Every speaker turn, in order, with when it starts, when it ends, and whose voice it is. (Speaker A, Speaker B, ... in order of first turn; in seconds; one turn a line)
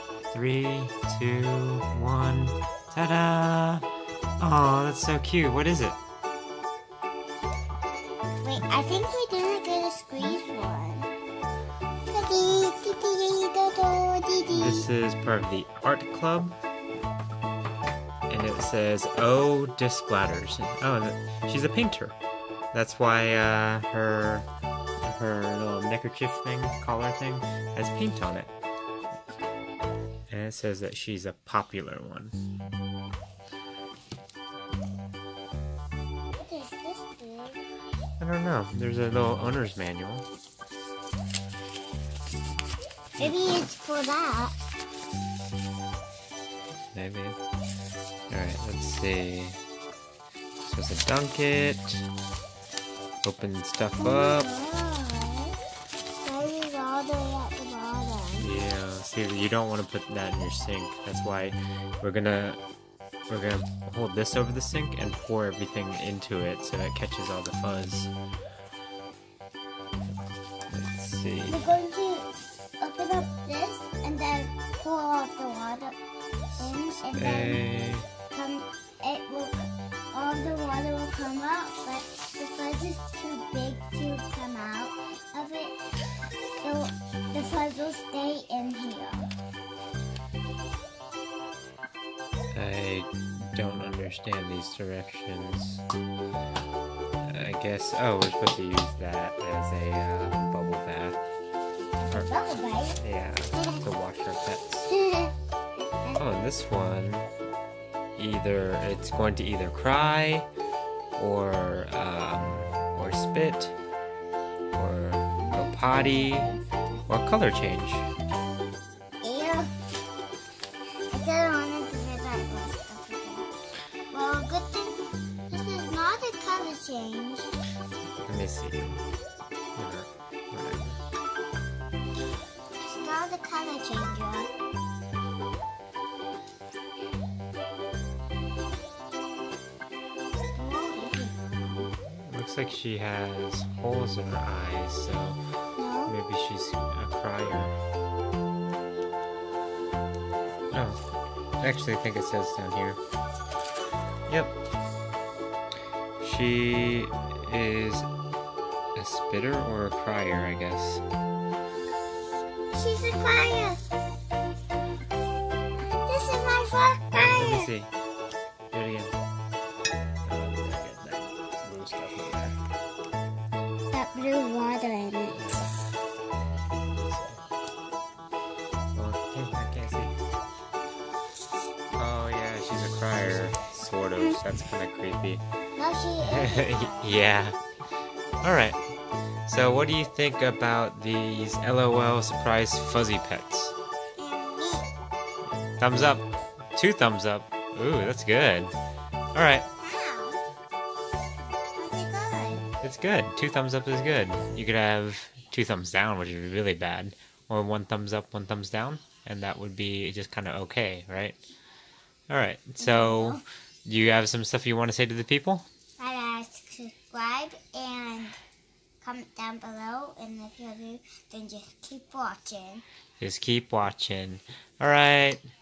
Speaker A: 0.3-3.9
Speaker A: 4.4-6.0
Speaker B: 8.4-11.1
Speaker B: 12.1-14.9
Speaker A: 14.5-16.6
Speaker A: 18.3-22.2
Speaker A: 22.7-24.5
Speaker A: 25.0-28.5
Speaker A: 30.3-32.4
Speaker B: 36.3-37.6
Speaker A: 38.2-40.2
Speaker B: 43.2-44.6
Speaker A: 46.9-47.4
Speaker A: 48.3-49.6
Speaker A: 50.6-52.1
Speaker A: 53.2-54.5
Speaker B: 54.0-55.6
Speaker B: 56.2-58.5
Speaker A: 58.4-62.6
Speaker A: 63.3-68.1
Speaker A: 70.7-71.8
Speaker B: 71.5-76.0
Speaker A: 76.6-78.1
Speaker B: 76.6-85.8
Speaker B: 86.6-89.3
Speaker A: 92.5-95.8
Speaker A: 97.2-101.2
Speaker B: 102.0-103.0
Speaker A: 103.0-104.9
Speaker B: 103.5-103.8
Speaker B: 104.9-106.2
Speaker A: 106.2-107.3
Speaker A: 108.2-110.5
Speaker A: 111.2-113.8
Speaker A: 114.7-116.5
Speaker B: 115.4-117.1
Speaker A: 117.1-118.1
Speaker B: 119.2-119.7
Speaker B: 121.1-123.5
Speaker B: 124.1-127.6
Speaker A: 128.2-129.0
Speaker A: 129.8-131.0
Speaker B: 132.8-134.5
Speaker B: 140.5-141.9
Speaker A: 142.3-145.4
Speaker B: 145.8-146.1
Speaker A: 146.1-147.7
Speaker A: 150.7-151.0
Speaker A: 151.6-153.0
Speaker A: 154.3-154.5
Speaker A: 156.2-158.1
Speaker A: 158.9-161.0
Speaker B: 162.7-163.8
Speaker B: 166.0-167.7
Speaker A: 167.1-167.9
Speaker A: 168.7-169.2
Speaker A: 170.2-172.6
Speaker B: 173.9-175.7
Speaker A: 175.3-175.8
Speaker A: 176.9-177.4
Speaker A: 178.9-180.1
Speaker A: 181.9-185.4
Speaker B: 185.8-187.2
Speaker A: 186.2-187.6
Speaker A: 188.4-188.8
Speaker A: 189.4-193.7
Speaker B: 194.2-194.9
Speaker A: 195.8-198.7
Speaker A: 199.3-199.7
Speaker B: 199.8-200.4
Speaker B: 201.7-202.7
Speaker A: 202.8-211.4
Speaker A: 212.3-215.7
Speaker B: 212.8-213.4
Speaker B: 216.0-218.4
Speaker B: 219.0-222.8
Speaker A: 223.2-225.4